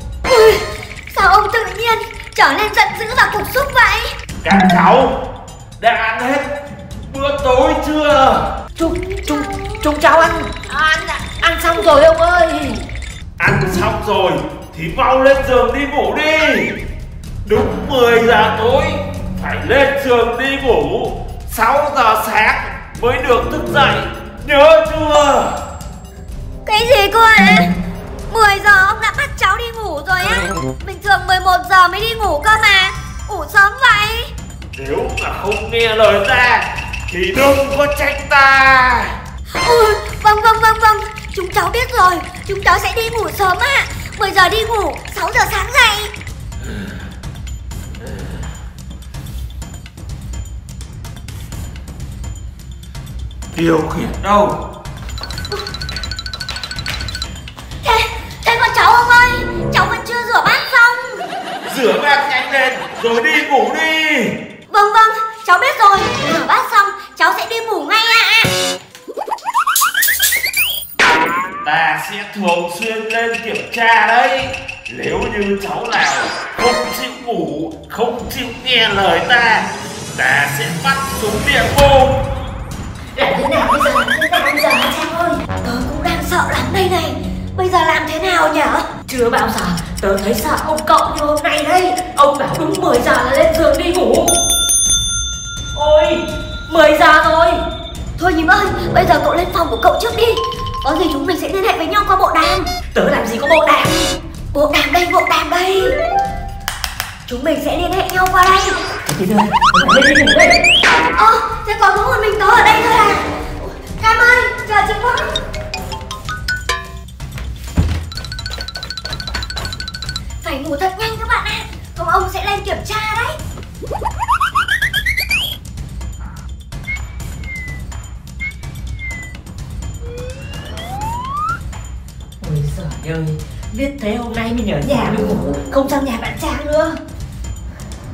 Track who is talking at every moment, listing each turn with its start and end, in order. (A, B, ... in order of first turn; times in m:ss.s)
0:00.2-0:04.1 A
0:04.4-0:05.2 B
0:05.8-0:06.5 B
0:07.0-0:08.5 B
0:08.8-0:12.8 C
0:08.8-0:09.8 A
0:13.4-0:16.8 B
0:17.4-0:25.6 B
0:26.6-0:27.7 A
0:28.3-0:34.3 A
0:34.7-0:39.1 B
0:39.6-0:46.1 A
0:48.0-0:48.3 B
0:53.5-0:54.6 B
0:57.8-1:01.2 A
1:01.6-1:04.4 B
1:04.7-1:08.5 A
1:11.6-1:22.3 B
1:23.2-1:25.5 C
1:25.6-1:28.9 A
1:29.1-1:34.3 C
1:35.7-1:37.6 C
1:38.2-1:42.7 A
1:42.9-1:44.0 C
1:44.5-1:46.0 A
1:47.3-1:48.8 A
1:49.1-1:50.6 C
1:51.2-1:55.3 A
2:00.4-2:03.4 A
2:12.4-2:17.0 C